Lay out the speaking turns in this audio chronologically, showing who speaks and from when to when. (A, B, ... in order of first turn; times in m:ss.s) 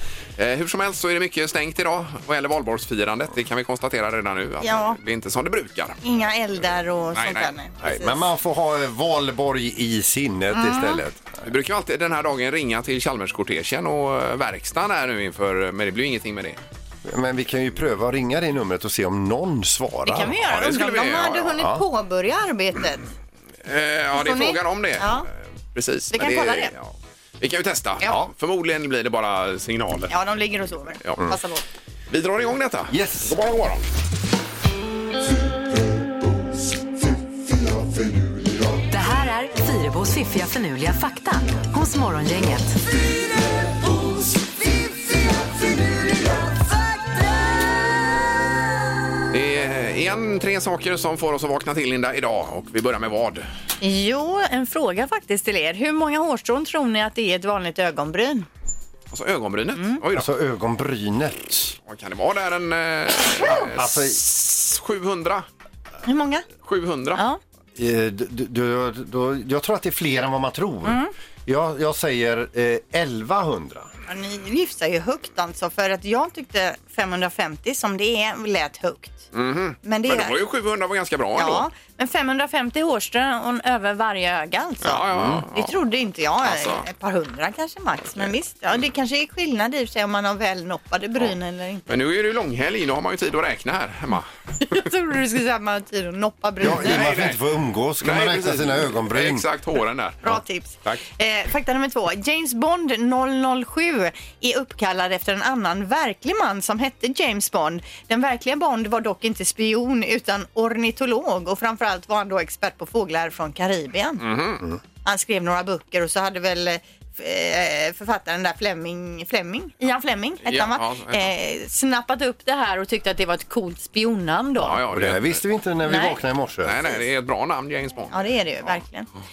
0:00.4-0:06.0 A
0:04.6-0:05.0 B
0:06.0-0:08.2 B
0:07.1-0:08.0 A
0:07.9-0:11.2 C
0:10.5-0:11.0 B
0:11.4-0:16.6 A
0:17.1-0:20.3 C
0:20.0-0:23.0 B
0:20.3-0:21.6 A
0:21.6-0:21.8 C
0:23.6-0:30.2 A
0:24.1-0:25.3 B
0:26.1-0:26.7 B
0:30.1-0:31.6 B
0:32.1-0:33.9 A
0:32.9-0:33.4 C
0:38.9-0:42.8 D
0:49.3-0:53.5 A
0:53.8-0:58.5 B
0:59.1-1:00.3 A
0:59.8-1:00.0 B
1:00.1-1:01.8 C
1:01.9-1:05.5 A
1:03.5-1:04.2 C
1:06.0-1:06.5 B
1:06.6-1:07.2 A
1:07.2-1:07.4 B
1:07.8-1:13.9 C
1:10.8-1:11.1 B
1:14.1-1:19.2 B
1:19.3-1:21.7 A
1:19.8-1:20.4 B
1:21.4-1:31.8 B
1:24.8-1:25.8 A
1:25.2-1:25.4 C
1:26.4-1:26.9 A
1:31.9-1:34.3 A
1:34.7-1:37.2 B
1:36.6-1:39.4 C
1:36.6-1:37.4 A
1:38.0-1:40.3 A
1:40.2-1:54.3 B
1:54.2-1:54.6 A
1:55.0-2:04.8 B
2:00.4-2:01.3 A
2:04.6-2:05.4 A
2:04.9-2:06.9 C
2:05.9-2:06.2 B
2:06.6-2:08.8 A
2:08.1-2:09.1 B